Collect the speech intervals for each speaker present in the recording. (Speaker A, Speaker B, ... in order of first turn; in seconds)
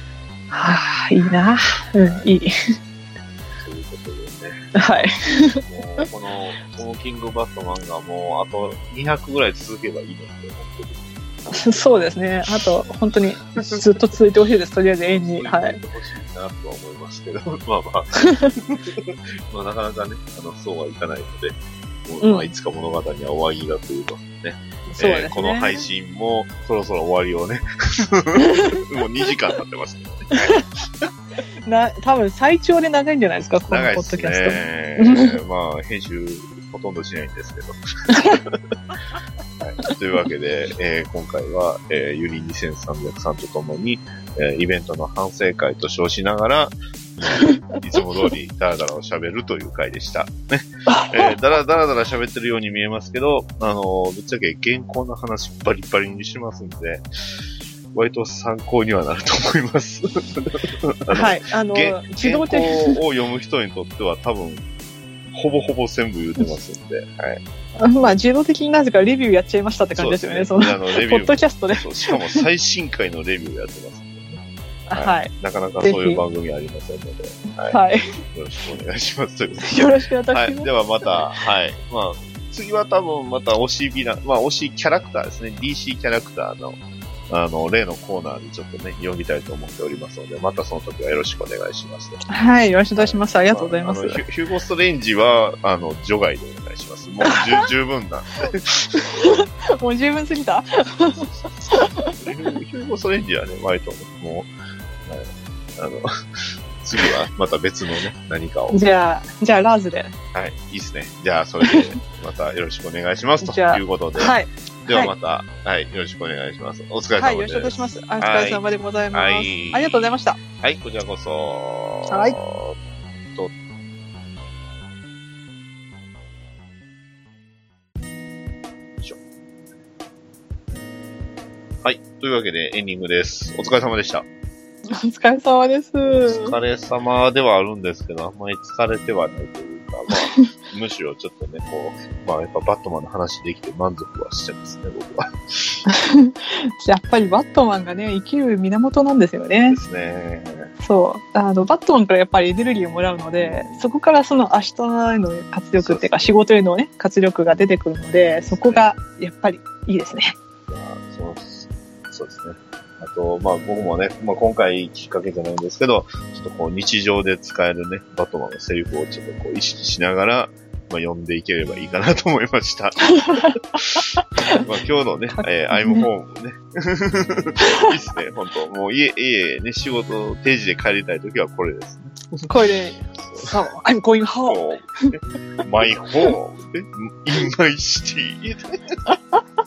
Speaker A: 0.5-2.5, 4.8-6.0, 11.5-15.8, 22.2-22.5, 24.9-25.9, 31.7-35.4, 50.9-51.4, 61.1-63.0, 67.8-72.4, 74.9-75.3, 75.8-76.2, 77.6-78.1, 79.6-81.3, 92.3-94.2, 97.3-97.7, 99.0-102.3, 108.7-110.1, 111.6-111.9, 113.4-115.1, 117.2-120.4, 122.1-122.4, 134.9-136.6, 145.9-149.8, 150.8-160.3, 173.2-173.5, 175.4-176.1, 182.5-184.6
Speaker B: 3.6-5.1, 5.6-11.8, 15.1-30.7, 33.7-38.6, 39.6-57.1, 57.9-64.6, 65.3-67.4, 70.0-79.8, 80.3-92.2, 93.0-99.5, 101.1-104.5, 105.1-108.8, 110.3-114.3, 114.9-118.6, 119.1-122.8, 131.8-134.3, 136.1-145.8, 149.7-150.7, 153.4-153.9, 155.8-156.3, 158.3-158.8, 160.7-182.5, 183.2-183.5, 184.5-189.0